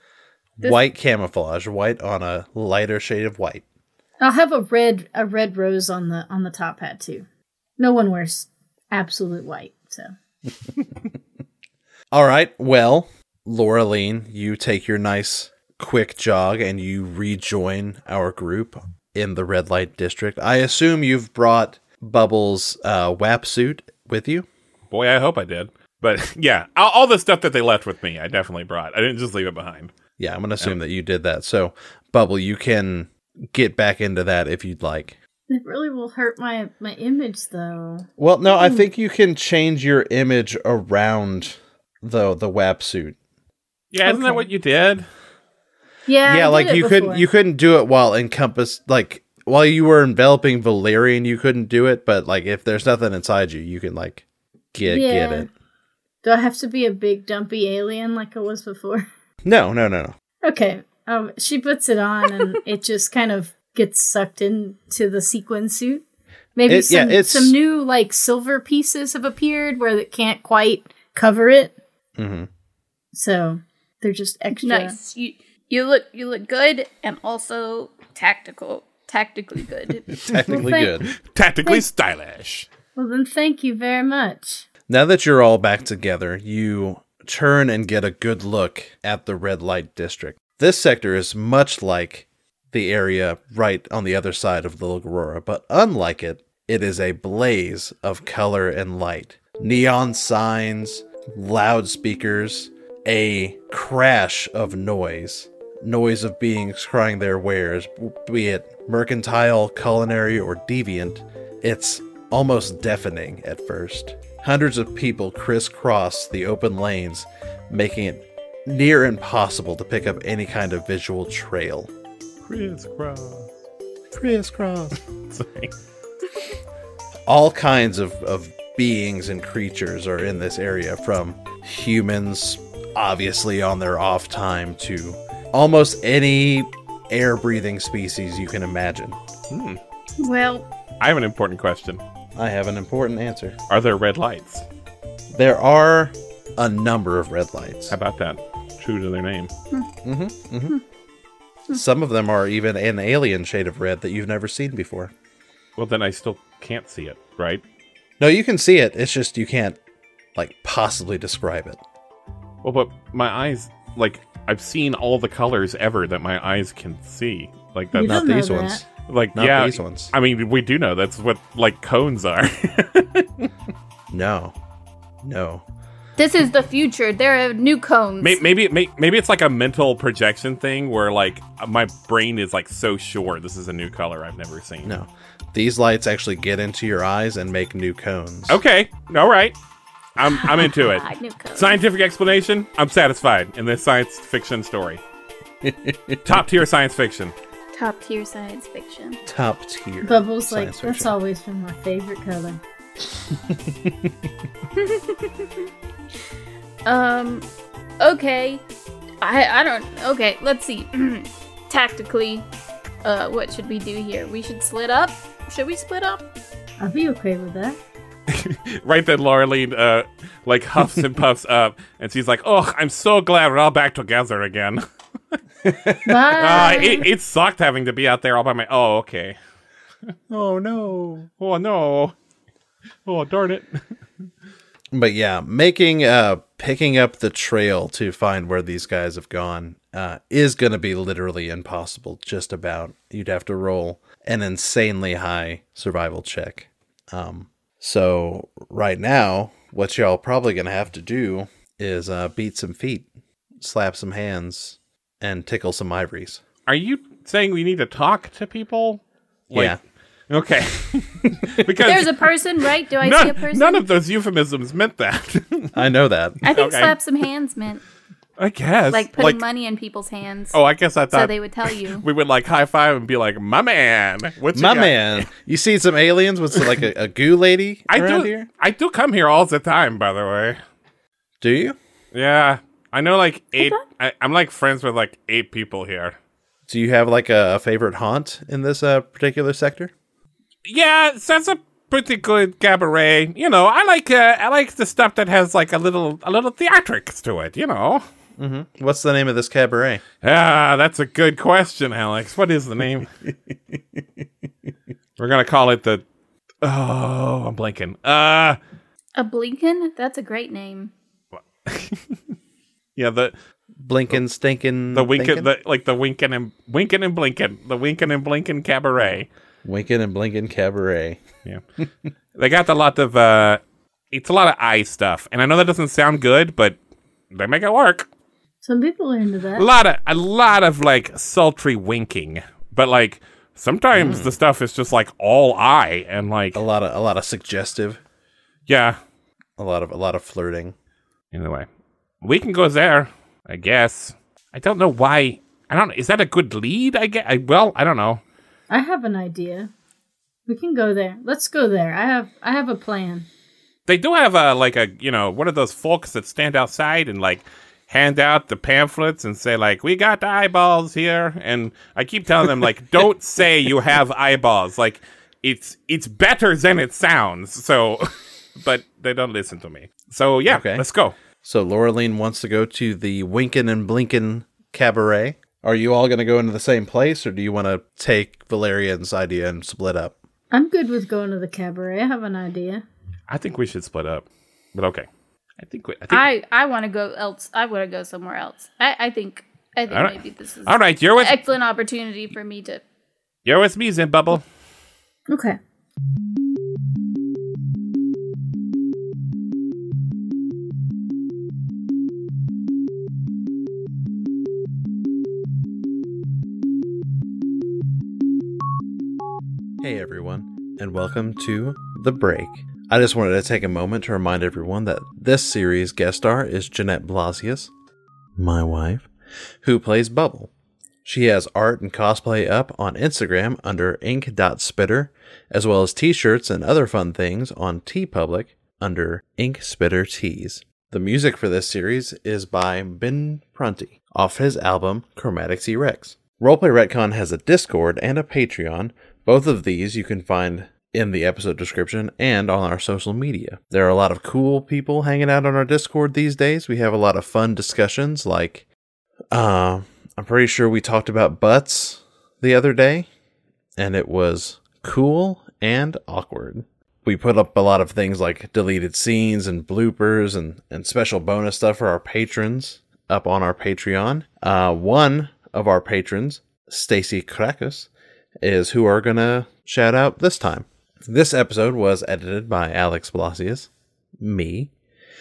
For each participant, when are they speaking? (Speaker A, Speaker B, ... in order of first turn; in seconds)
Speaker A: 0.6-3.6, 12.1-24.5, 30.2-35.2, 38.2-43.1, 46.2-55.5, 59.4-60.1, 66.7-67.5, 72.2-72.5, 80.2-81.1, 84.9-121.9, 124.1-125.0, 127.3-139.2, 142.3-143.6, 145.3-147.9, 150.0-150.7, 151.7-155.1, 158.2-159.8, 160.3-161.8, 168.0-170.1, 174.1-174.5, 175.2-175.6, 184.8-188.6, 195.6-196.4, 199.3-201.1, 203.5-204.1, 230.3-231.3, 234.9-256.4, 259.5-259.8, 265.7-266.4, 274.5-278.5, 281.4-281.8, 286.7-289.9, 298.4-300.0, 313.8-315.5, 319.6-321.2, 333.9-334.3, 336.5-338.0, 339.6-340.7, 370.5-370.8, 371.4-380.1, 409.8-417.7, 418.4-419.1, 419.6-420.5, 421.0-448.6, 449.3-453.1, 453.8-467.9, 468.4-474.7
Speaker B: 4.2-7.2, 7.8-10.1, 35.5-38.1, 44.0-44.5, 46.1-47.2, 54.9-55.5, 56.2-59.1, 60.4-66.0, 66.5-71.7, 73.1-75.0, 80.5-81.0, 83.0-84.7, 167.9-168.8, 200.0-202.6, 216.8-217.8, 226.0-227.1, 328.6-329.6, 348.7-349.7, 350.4-353.3, 380.5-382.8, 395.3-395.6
Speaker C: 24.9-29.9, 43.9-45.0, 81.1-82.7, 122.4-123.5, 125.3-125.7, 139.5-139.8, 141.0-142.0, 143.7-144.6, 147.9-149.5, 155.8-157.6, 162.6-168.2, 169.1-173.5, 178.2-184.9, 188.5-189.6, 190.2-195.0, 196.2-197.3, 218.3-224.8, 225.6-229.4, 231.4-232.1, 233.1-233.8, 256.7-259.8, 260.3-262.3, 263.0-265.8, 266.4-266.9, 268.4-269.4, 270.5-275.3, 277.9-280.6, 282.1-286.1, 290.6-298.0, 300.2-303.1, 305.2-306.0, 306.6-308.6, 311.6-312.2, 312.9-313.3, 314.9-319.3, 322.4-326.8, 327.3-328.1, 329.6-336.6, 338.7-339.0, 341.3-341.7, 342.2-348.2, 353.9-371.1, 383.3-385.1, 385.6-386.3, 389.9-391.4, 393.4-394.4
Speaker D: 74.6-80.3, 140.2-140.7, 176.2-178.4, 190.2-191.8, 197.7-199.2, 204.8-205.6, 206.8-207.5, 208.0-208.6, 209.2-212.4, 213.0-216.2, 261.8-263.8, 266.4-267.8, 268.9-270.6, 271.1-272.0, 309.1-310.9, 386.1-392.8